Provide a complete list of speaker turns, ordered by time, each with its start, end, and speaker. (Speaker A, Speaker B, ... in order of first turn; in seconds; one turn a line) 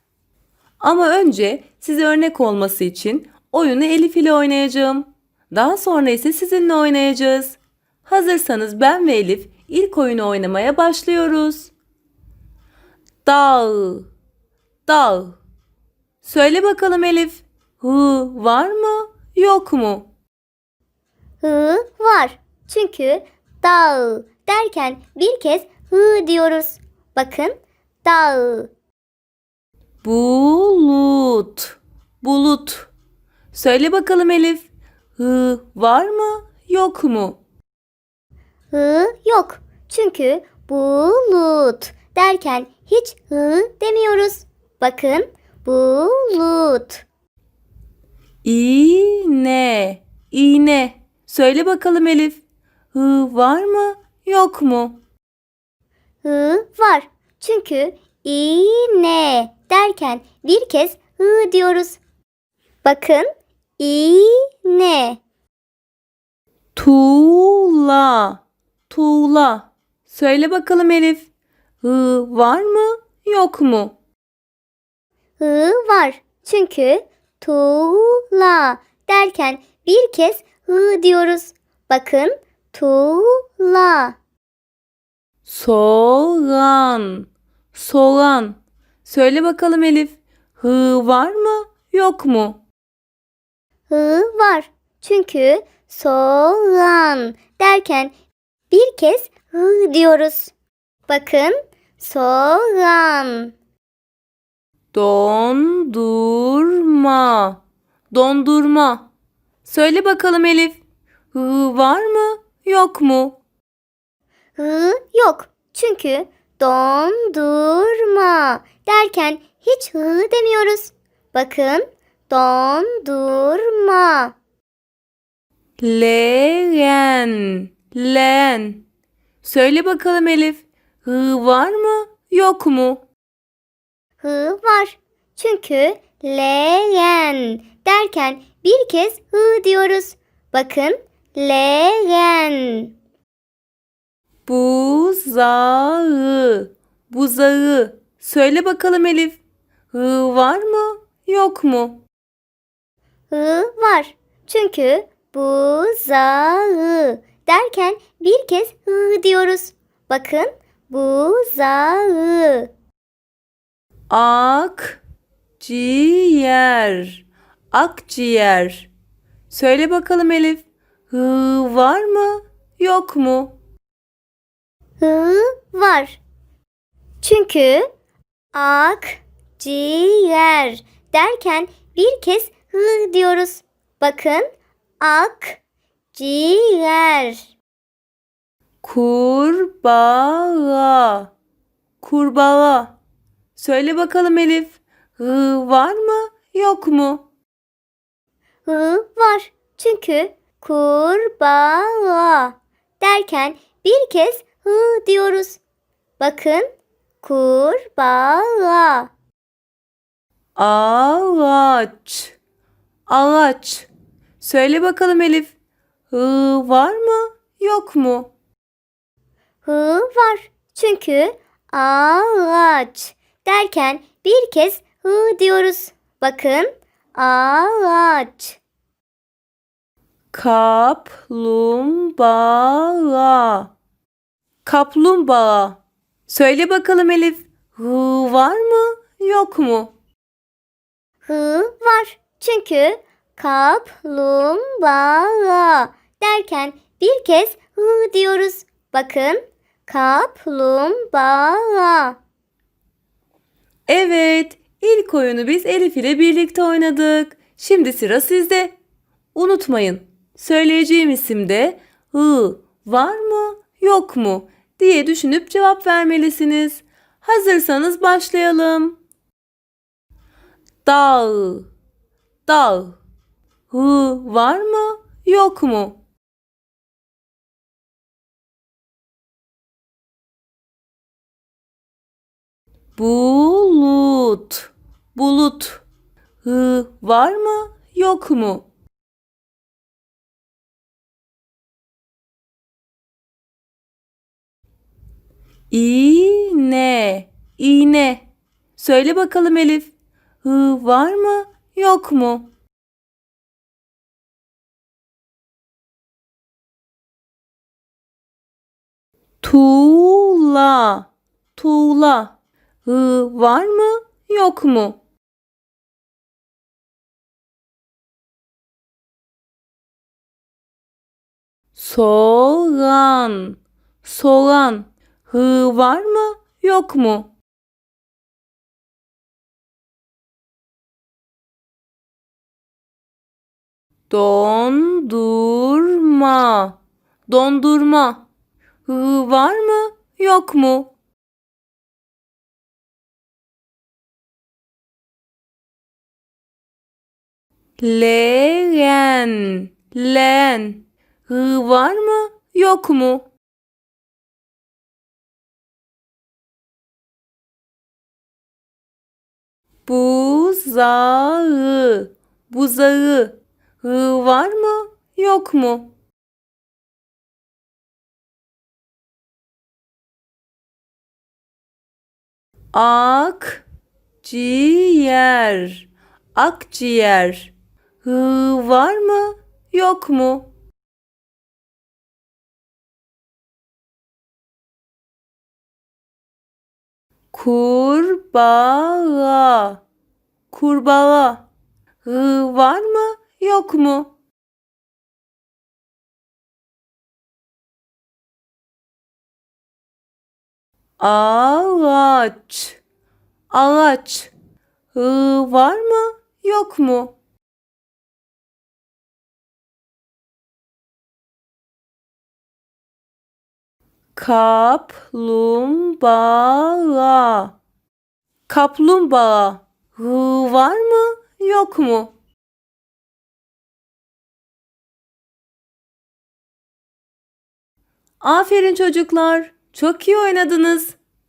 Speaker A: 0.8-11.7
Speaker A: 13.2-14.1
Speaker A: 14.9-15.4
Speaker A: 16.2-20.1
Speaker B: 21.4-28.7
Speaker A: 30.0-32.9
Speaker A: 33.5-37.4
Speaker B: 38.7-47.0
Speaker A: 48.4-52.4
Speaker A: 52.9-55.0
Speaker B: 56.2-62.0
Speaker B: 62.8-65.2
Speaker A: 66.8-71.3
Speaker A: 71.8-74.0
Speaker B: 75.4-84.2
Speaker A: 85.5-92.6
Speaker B: 93.9-98.1
Speaker B: 98.7-100.5
Speaker B: 101.1-103.5
Speaker A: 104.9-109.1
Speaker A: 109.6-110.8
Speaker A: 111.3-113.4
Speaker B: 114.6-124.3
Speaker A: 125.8-128.8
Speaker A: 129.4-133.1
Speaker B: 134.2-142.9
Speaker A: 144.5-149.4
Speaker A: 149.9-152.0
Speaker B: 153.3-162.7
Speaker A: 164.1-165.0
Speaker A: 165.6-168.9
Speaker A: 169.5-173.6
Speaker B: 175.0-176.2
Speaker B: 177.2-177.9
Speaker B: 178.5-184.5
Speaker B: 185.0-185.6
Speaker B: 186.1-187.5
Speaker A: 188.8-191.3
Speaker A: 192.0-192.9
Speaker A: 193.6-197.2
Speaker B: 198.7-205.6
Speaker B: 206.2-206.7
Speaker B: 207.2-209.1
Speaker A: 210.6-212.4
Speaker A: 213.1-213.9
Speaker A: 214.4-215.5
Speaker A: 216.1-218.3
Speaker B: 219.6-228.6
Speaker A: 230.3-233.7
Speaker A: 234.7-239.9
Speaker B: 241.2-252.2
Speaker A: 253.9-258.8
Speaker A: 259.3-269.0
Speaker A: 270.8-271.7
Speaker A: 272.5-273.0
Speaker A: 273.7-276.0
Speaker A: 283.0-285.8
Speaker A: 286.4-288.7
Speaker A: 295.7-302.5
Speaker A: 309.4-312.3
Speaker A: 312.9-315.0
Speaker A: 321.8-327.3
Speaker A: 334.1-338.3
Speaker A: 338.9-340.9
Speaker A: 347.8-353.3
Speaker A: 359.9-365.9
Speaker A: 372.7-373.6
Speaker A: 374.2-380.5
Speaker A: 387.3-389.8
Speaker A: 390.5-391.5
Speaker A: 392.0-394.1
Speaker A: 401.0-402.8
Speaker A: 403.5-404.3
Speaker A: 404.9-407.2
Speaker A: 414.1-417.6
Speaker A: 418.5-422.1
Speaker A: 428.2-431.0